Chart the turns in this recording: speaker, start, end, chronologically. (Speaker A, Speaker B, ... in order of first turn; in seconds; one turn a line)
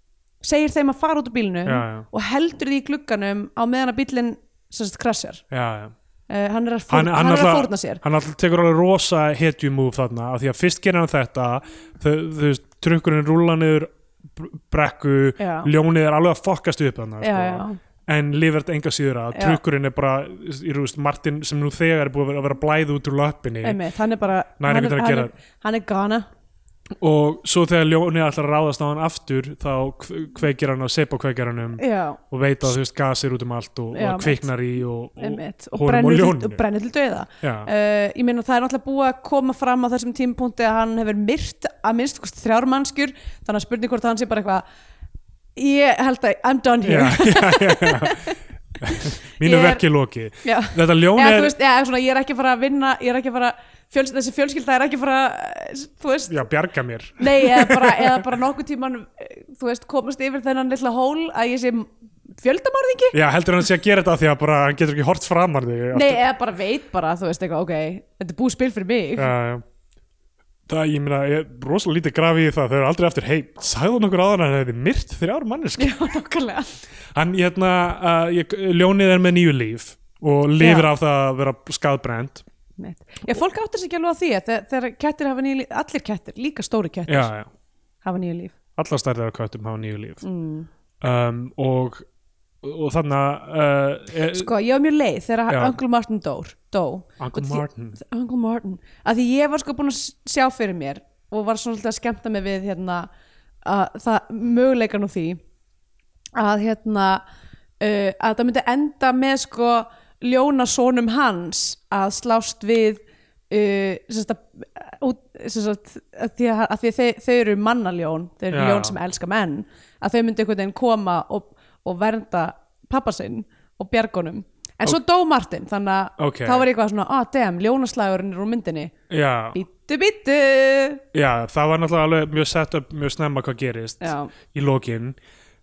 Speaker A: 0.4-5.4
Speaker B: 1.7-2.0
Speaker B: 5.5-5.9
Speaker A: 6.3-8.0
Speaker B: 6.9-23.8
Speaker A: 15.4-15.7
Speaker A: 17.2-17.8
Speaker A: 19.3-19.6
Speaker A: 23.6-26.3
Speaker B: 24.6-25.3
Speaker B: 27.0-36.6
Speaker A: 31.8-32.2
Speaker A: 33.9-34.5
Speaker A: 35.2-44.6
Speaker B: 37.4-37.7
Speaker A: 45.5-48.4
Speaker B: 46.8-48.3
Speaker B: 48.8-51.5
Speaker A: 48.9-49.8
Speaker A: 50.4-56.4
Speaker B: 56.3-58.2
Speaker A: 57.2-63.2
Speaker B: 63.1-66.2
Speaker A: 65.9-69.3
Speaker B: 69.2-69.6
Speaker B: 70.7-75.9
Speaker A: 75.8-76.7
Speaker B: 77.1-82.5
Speaker A: 80.6-80.9
Speaker A: 82.8-87.3
Speaker B: 87.1-87.5
Speaker A: 88.0-88.5
Speaker B: 88.8-90.2
Speaker A: 90.2-90.7
Speaker B: 91.0-92.0
Speaker B: 92.6-94.5
Speaker A: 94.3-103.1
Speaker B: 95.5-95.8
Speaker B: 97.2-98.0
Speaker A: 103.6-105.4
Speaker A: 106.3-107.2
Speaker A: 107.8-128.9
Speaker B: 118.5-119.0
Speaker B: 126.2-126.6
Speaker B: 129.1-129.6
Speaker A: 129.5-131.0
Speaker B: 131.1-135.2
Speaker A: 134.0-134.3